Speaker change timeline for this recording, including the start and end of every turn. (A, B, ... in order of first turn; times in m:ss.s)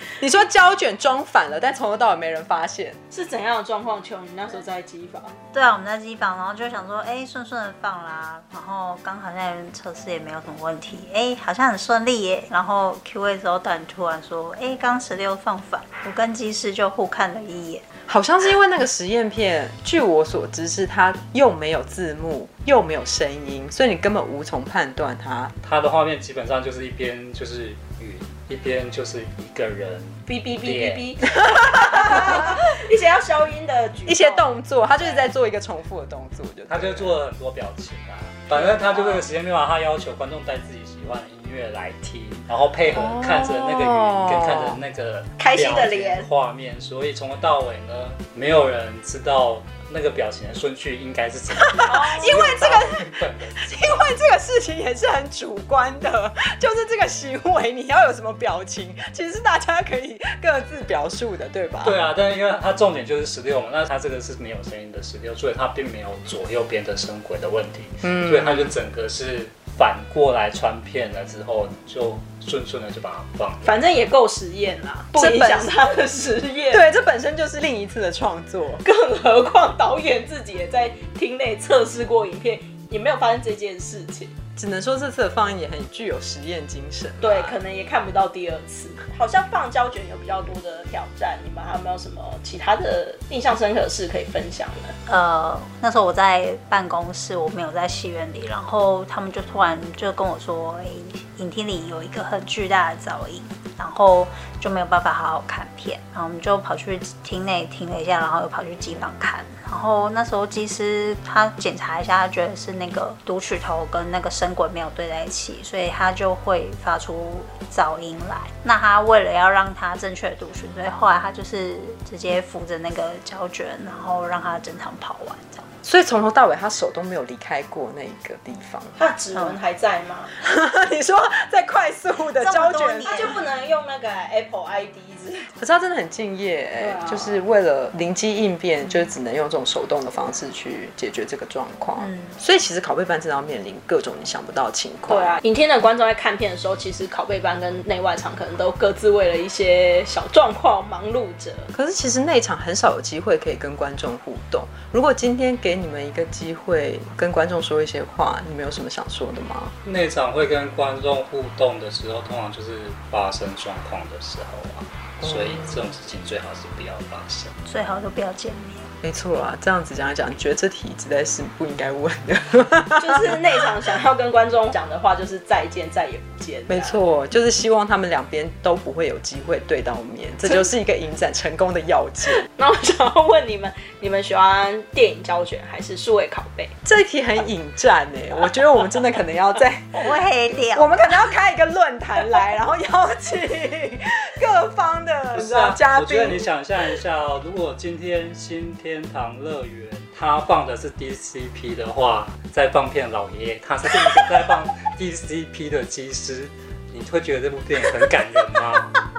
0:00.2-0:03.0 A
0:03.1-0:05.3 B
0:05.5-0:17.8 C
0:18.1-0:25.5 A
0:25.6-0:31.2 D
0:30.3-0:34.4 B
0:34.1-0:37.2 A
0:36.7-0:54.0 D
0:38.5-0:39.2 B
0:42.9-0:44.8 A
0:45.4-0:46.3 B
0:51.6-1:02.0 A
0:51.8-0:52.5 B
1:01.8-1:13.7 D
1:08.0-1:08.7 A
1:13.6-1:16.8 B
1:15.1-1:15.8 A
1:16.7-1:18.8 A
1:18.8-1:24.3 B
1:24.5-1:27.6 A
1:27.2-1:35.0 B
1:35.1-2:05.7 C
2:05.8-2:09.0 A
2:09.0-2:10.3 B
2:10.4-2:13.3 A
2:12.4-2:13.4 C
2:13.0-2:15.5 B
2:15.6-2:25.4 A
2:16.8-2:17.4 B
2:22.0-2:22.3 C
2:25.1-2:31.7 B
2:31.7-2:39.7 A
2:39.8-2:47.5 D
2:45.2-2:45.6 A
2:47.6-2:48.9 C
2:49.0-2:53.4 A
2:53.0-2:57.0 B
2:56.7-3:02.4 A
3:02.4-3:06.7 B
3:06.8-3:16.5 A
3:09.9-3:11.3 C
3:15.3-3:29.0 D